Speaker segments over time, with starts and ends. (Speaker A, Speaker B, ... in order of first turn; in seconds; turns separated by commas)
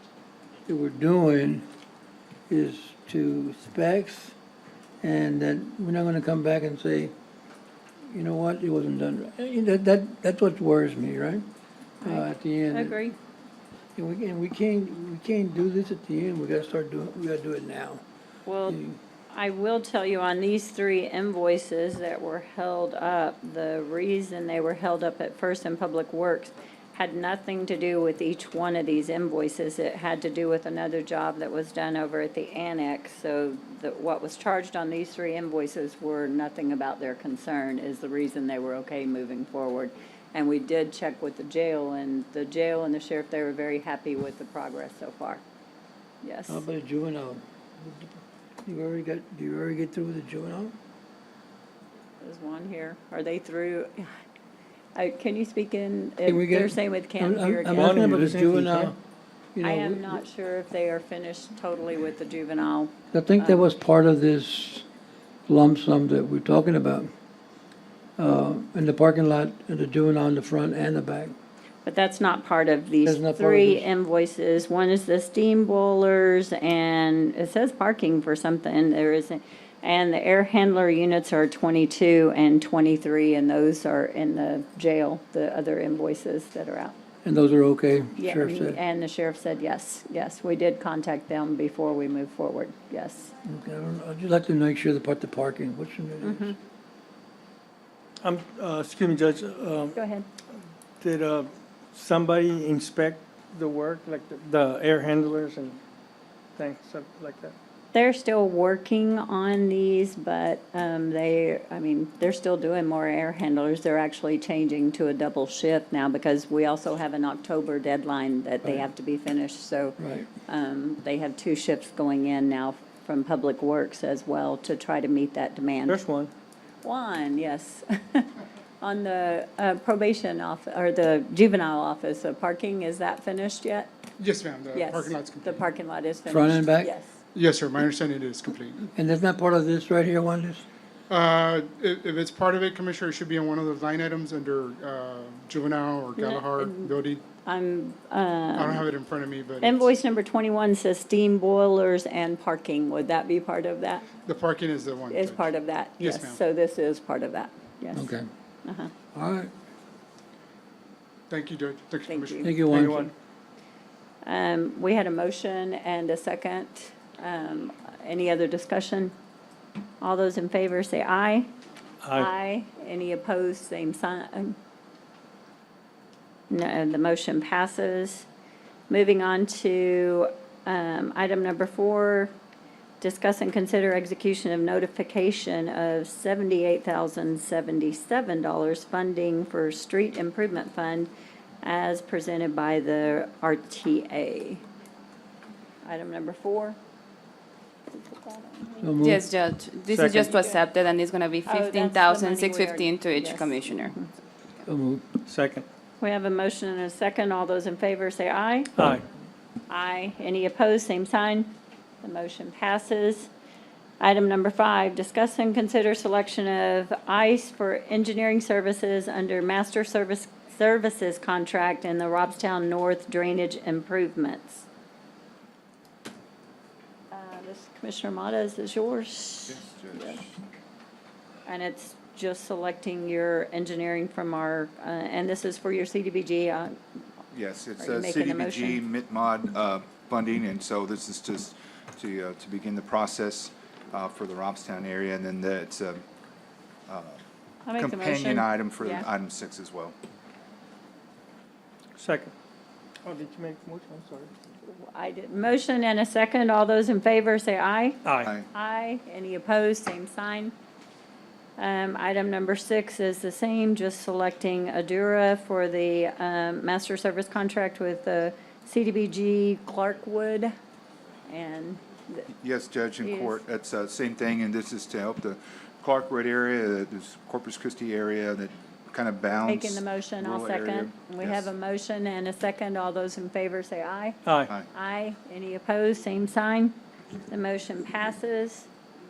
Speaker A: 0.7-1.6, Speaker A: 2.5-4.3, Speaker A: 5.0-7.1, Speaker A: 8.1-11.4, Speaker B: 12.0-13.2, Speaker A: 12.0-13.0, Speaker A: 14.0-18.0, Speaker B: 18.5-18.8, Speaker A: 18.7-19.0, Speaker B: 19.3-45.4, Speaker B: 46.2-46.7, Speaker A: 46.5-50.7, Speaker B: 52.2-54.1, Speaker B: 55.0-58.0, Speaker A: 56.3-59.0, Speaker C: 57.7-59.0, Speaker A: 59.5-60.2, Speaker B: 59.6-63.7, Speaker A: 63.1-64.9, Speaker A: 65.5-67.1, Speaker A: 68.2-71.3, Speaker B: 71.8-87.0, Speaker A: 73.1-73.9, Speaker A: 87.2-88.8, Speaker B: 88.2-93.3, Speaker A: 93.4-96.6, Speaker B: 96.2-96.6, Speaker C: 98.2-100.0, Speaker B: 100.0-100.3, Speaker C: 101.0-105.8, Speaker C: 106.6-107.5, Speaker B: 107.9-126.0, Speaker A: 120.0-120.3, Speaker C: 125.9-126.3, Speaker B: 126.8-128.3, Speaker B: 128.8-133.9, Speaker D: 134.2-135.7, Speaker B: 134.7-137.2, Speaker A: 136.3-136.9, Speaker D: 137.3-138.9, Speaker A: 138.9-140.7, Speaker D: 141.1-147.2, Speaker B: 146.2-146.9, Speaker B: 147.4-148.8, Speaker D: 148.6-149.9, Speaker B: 149.6-154.1, Speaker D: 154.2-156.4, Speaker B: 155.1-158.1, Speaker A: 157.9-158.3, Speaker B: 158.7-158.9, Speaker A: 159.1-159.5, Speaker D: 161.3-163.1, Speaker B: 162.1-162.5, Speaker A: 162.4-163.1, Speaker C: 162.7-163.1, Speaker B: 164.2-169.1, Speaker B: 170.0-171.5, Speaker C: 172.0-172.3, Speaker B: 172.1-174.6, Speaker B: 176.5-178.3, Speaker B: 178.9-182.3, Speaker B: 183.0-191.1, Speaker B: 191.6-194.6, Speaker B: 195.8-196.8, Speaker B: 197.9-198.8, Speaker A: 198.8-199.2, Speaker E: 199.0-204.0, Speaker C: 199.9-200.3, Speaker B: 200.1-200.7, Speaker B: 201.4-204.1, Speaker A: 204.7-205.1, Speaker C: 205.3-205.7, Speaker B: 206.0-208.7, Speaker C: 208.8-209.0, Speaker B: 209.7-211.5, Speaker B: 212.0-213.3, Speaker B: 214.0-224.7, Speaker B: 227.1-230.2, Speaker F: 229.5-230.2, Speaker B: 231.5-236.8, Speaker F: 237.3-246.0, Speaker B: 237.8-238.8, Speaker F: 246.9-247.2, Speaker B: 247.7-249.1, Speaker F: 247.8-249.9, Speaker C: 252.0-252.3, Speaker C: 253.1-254.3, Speaker B: 254.7-260.5, Speaker C: 258.1-258.3, Speaker B: 261.6-270.5, Speaker B: 271.3-272.3, Speaker F: 272.3-281.5, Speaker B: 273.0-273.4, Speaker B: 279.4-284.2, Speaker C: 284.3-284.5, Speaker B: 284.7-286.8, Speaker B: 287.3-288.7